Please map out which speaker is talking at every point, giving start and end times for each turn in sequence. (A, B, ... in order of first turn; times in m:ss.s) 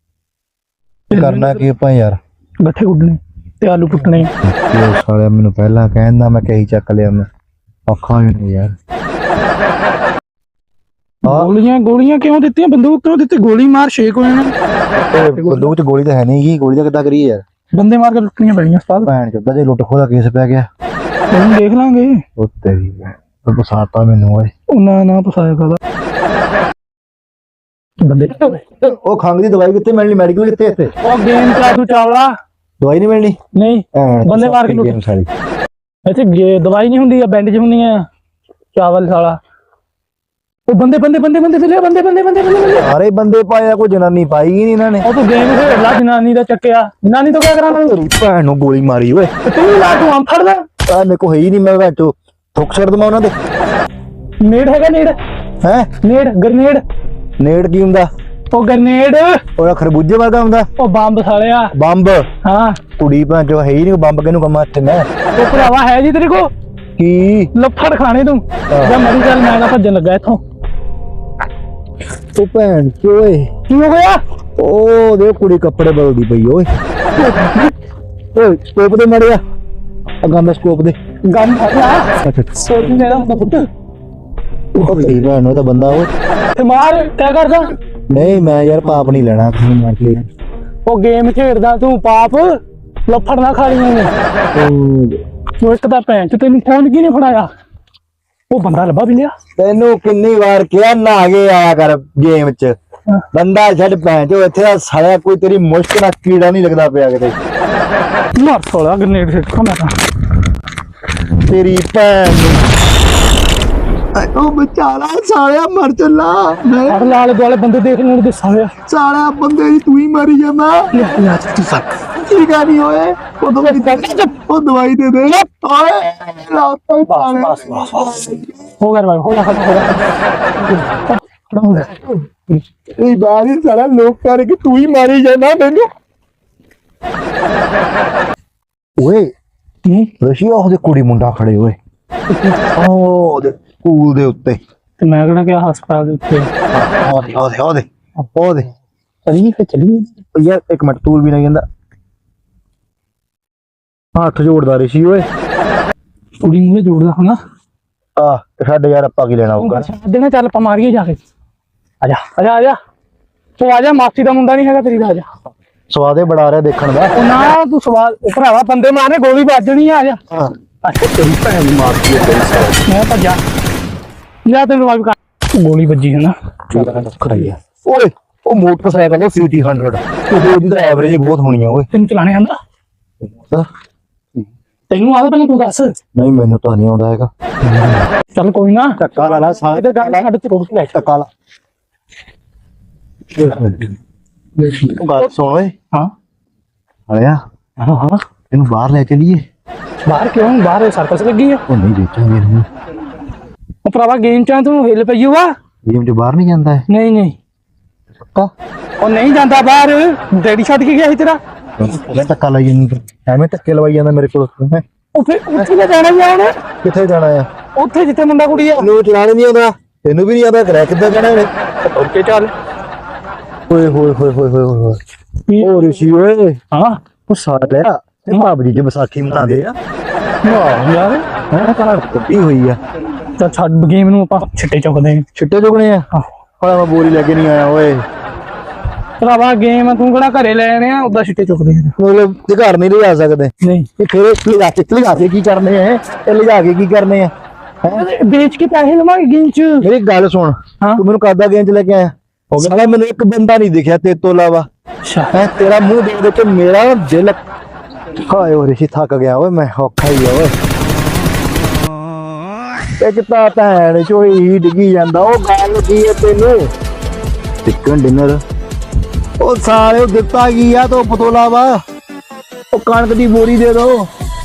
0:01.1-0:01.7 A
0:01.1-0:02.2 B
0:02.6-0:04.3 A
0:04.4-0:07.2 B
0:07.9-0:08.7 B
0:11.2-0:11.5 B
0:11.2-0:14.6 A
0:15.0-0:17.4 B
0:15.3-0:15.7 A
0:17.7-0:19.1 A
0:19.0-0:20.7 B
0:21.3-0:22.2 A
0:22.4-0:24.5 B
0:24.7-0:25.8 A
0:28.0-0:28.6 A
0:28.8-0:30.9 B
0:31.0-0:32.3 A
0:32.8-0:33.4 B
0:33.6-0:35.0 A
0:33.9-0:35.3 B
0:36.1-0:38.0 A
0:38.8-0:39.4 A
0:40.7-0:42.9 A
0:42.7-0:45.1 B
0:45.0-0:48.0 A
0:47.7-0:49.3 B
0:49.4-0:50.6 A
0:50.9-0:53.3 B
0:54.4-0:55.2 A
0:55.6-0:55.9 B
0:56.0-0:56.8 A
0:57.4-0:58.1 B
0:58.5-0:59.4 A
0:59.6-1:00.7 B
1:00.8-1:01.7 A
1:01.8-1:02.2 B
1:02.4-1:02.8 A
1:03.0-1:05.1 B
1:05.4-1:06.5 A
1:07.0-1:07.5 B
1:07.6-1:10.4 A
1:08.7-1:09.0 B
1:12.4-1:13.5 B
1:13.7-1:14.2 A
1:14.6-1:16.7 B
1:17.3-1:17.5 A
1:18.3-1:19.4 B
1:20.2-1:21.0 B
1:21.3-1:23.7 A
1:22.2-1:22.8 B
1:24.8-1:26.1 B
1:24.8-1:25.1 A
1:26.6-1:27.7 A
1:28.1-1:30.2 B
1:30.9-1:32.5 A
1:33.1-1:34.1 A
1:34.5-1:35.2 B
1:35.6-1:37.5 A
1:38.5-1:39.3 A
1:39.6-1:42.8 B
1:43.3-1:47.4 B
1:48.4-1:49.9 A
1:51.5-1:52.7 B
1:54.2-1:57.2 B
1:56.9-1:58.7 A
1:58.9-2:01.3 B
2:00.9-2:01.9 A
2:02.2-2:08.6 B
2:03.6-2:04.3 A
2:07.1-2:08.0 A
2:08.8-2:10.0 A
2:11.5-2:15.9 B
2:19.0-2:19.3 B
2:19.8-2:20.1 A
2:20.2-2:21.8 B
2:22.5-2:24.6 B
2:25.0-2:26.5 A
2:26.7-2:28.7 B
2:29.3-2:30.1 A
2:30.4-2:31.6 B
2:34.2-2:35.3 B
2:36.4-2:37.4 A
2:38.2-2:39.9 B
2:39.6-2:41.2 A
2:42.0-2:42.8 A
2:43.6-2:45.3 A
2:45.9-2:47.1 B
2:47.2-2:50.2 A
2:50.8-2:51.8 A
2:51.6-2:52.8 B
2:52.6-2:53.4 A
2:54.5-2:56.4 A
2:56.7-3:01.9 B
3:01.9-3:02.6 A
3:03.4-3:03.7 B
3:04.9-3:05.9 A
3:06.2-3:08.0 B
3:08.4-3:11.0 A
3:09.0-3:10.2 B
3:10.9-3:11.3 B
3:13.4-3:14.0 B
3:14.6-3:15.3 A
3:14.9-3:15.7 B
3:17.1-3:17.4 B
3:17.8-3:18.2 A
3:18.5-3:19.4 B
3:20.0-3:21.6 A
3:21.7-3:22.7 B
3:23.8-3:25.5 A
3:25.9-3:26.9 B
3:26.9-3:27.4 A
3:29.0-3:31.4 A
3:31.8-3:34.8 B
3:35.2-3:36.5 A
3:36.8-3:37.5 B
3:37.8-3:38.9 A
3:38.8-3:41.5 B
3:41.8-3:42.5 A
3:43.7-3:45.0 B
3:45.5-3:45.8 A
3:45.6-3:46.6 B
3:46.7-3:47.0 A
3:47.3-3:49.8 B
3:50.4-3:51.3 A
3:51.5-3:52.8 B
3:53.4-3:55.3 A
3:55.4-3:56.1 B
3:56.6-3:58.0 B
3:59.2-4:02.0 A
4:02.0-4:07.3 B
4:03.6-4:03.9 A
4:07.9-4:09.9 A
4:09.8-4:14.7 B
4:15.0-4:15.3 A
4:15.3-4:17.4 B
4:18.3-4:20.6 B
4:23.0-4:26.7 B
4:27.6-4:28.4 B
4:29.4-4:31.8 B
4:32.7-4:34.1 B